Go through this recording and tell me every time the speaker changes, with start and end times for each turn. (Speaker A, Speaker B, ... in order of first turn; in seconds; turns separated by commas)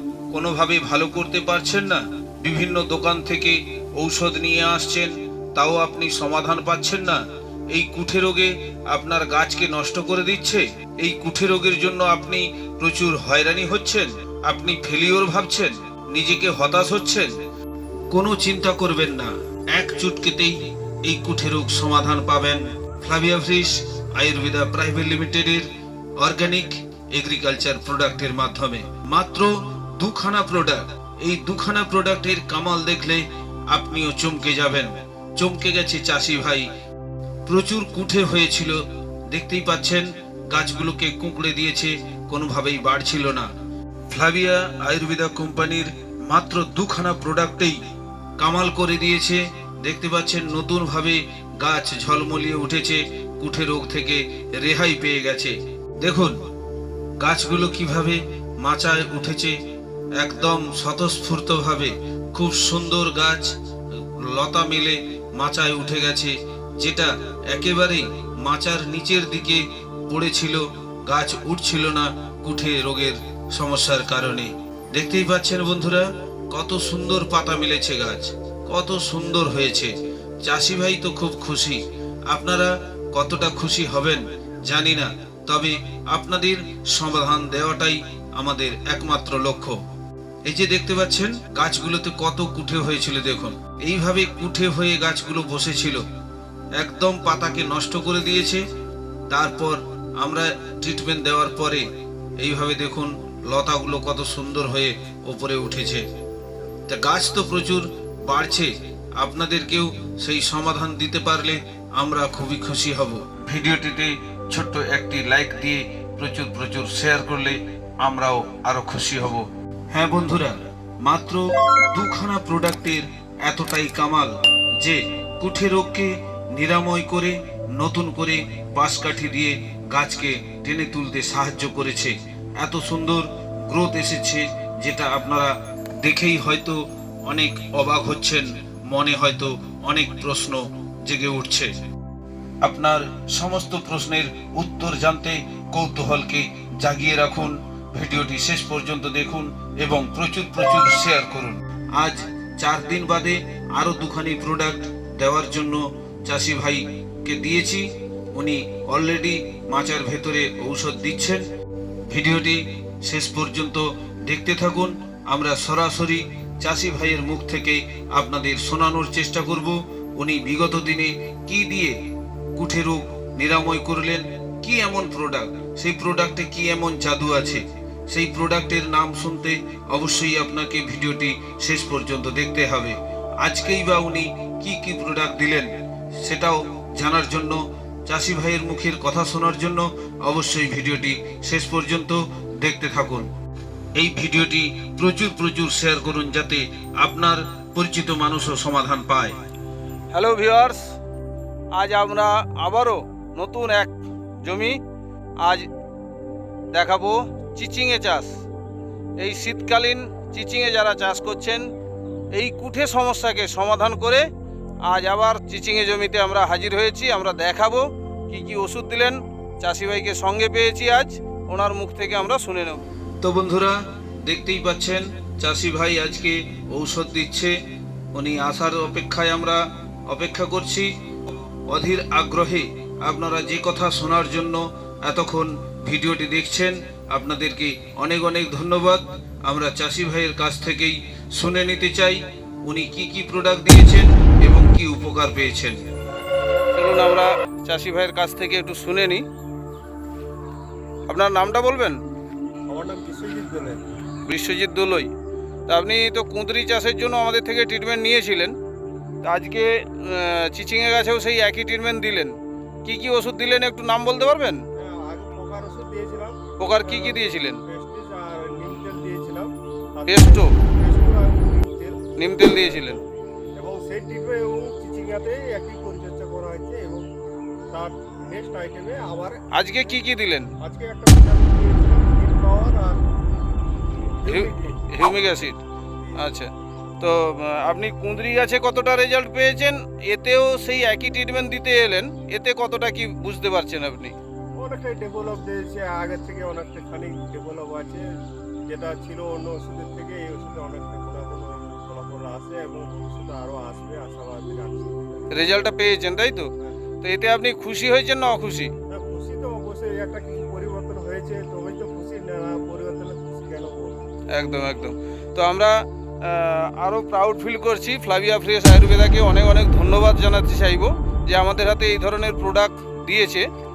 Speaker A: 0.3-7.2, Speaker A: 7.7-17.4, Speaker A: 18.1-25.7, Speaker A: 26.2-36.7, Speaker A: 37.5-43.5, Speaker A: 44.1-47.8, Speaker A: 48.4-56.4, Speaker A: 57.2-59.5, Speaker A: 60.2-63.5, Speaker A: 64.2-79.9, Speaker A: 80.4-89.8, Speaker A: 90.5-96.0, Speaker A: 96.8-98.6, Speaker A: 99.3-101.8, Speaker A: 102.4-106.0, Speaker A: 106.9-141.7, Speaker A: 142.6-161.4, Speaker A: 162.1-171.9, Speaker A: 172.6-185.7, Speaker A: 186.2-193.3, Speaker A: 193.9-199.3, Speaker B: 200.1-200.8, Speaker B: 201.7-204.8, Speaker B: 206.7-208.3, Speaker B: 209.2-211.6, Speaker B: 212.3-214.2, Speaker B: 214.9-222.8, Speaker A: 223.2-227.6, Speaker A: 228.1-230.9, Speaker A: 231.7-245.8, Speaker B: 246.7-249.2, Speaker B: 251.1-252.0, Speaker C: 252.7-253.8, Speaker B: 254.3-255.1, Speaker B: 255.7-258.5, Speaker B: 259.2-262.3, Speaker B: 262.8-264.6, Speaker C: 264.8-277.1, Speaker B: 266.6-267.6, Speaker B: 270.1-270.5, Speaker B: 272.2-273.0, Speaker C: 277.7-280.0, Speaker B: 279.5-280.5, Speaker C: 280.6-283.0, Speaker C: 284.2-284.8, Speaker B: 284.3-285.6, Speaker C: 286.0-286.3, Speaker B: 286.2-294.1, Speaker C: 294.6-298.1, Speaker C: 298.6-305.5, Speaker B: 305.3-306.5, Speaker B: 307.0-308.7, Speaker C: 308.9-314.1, Speaker B: 314.3-323.4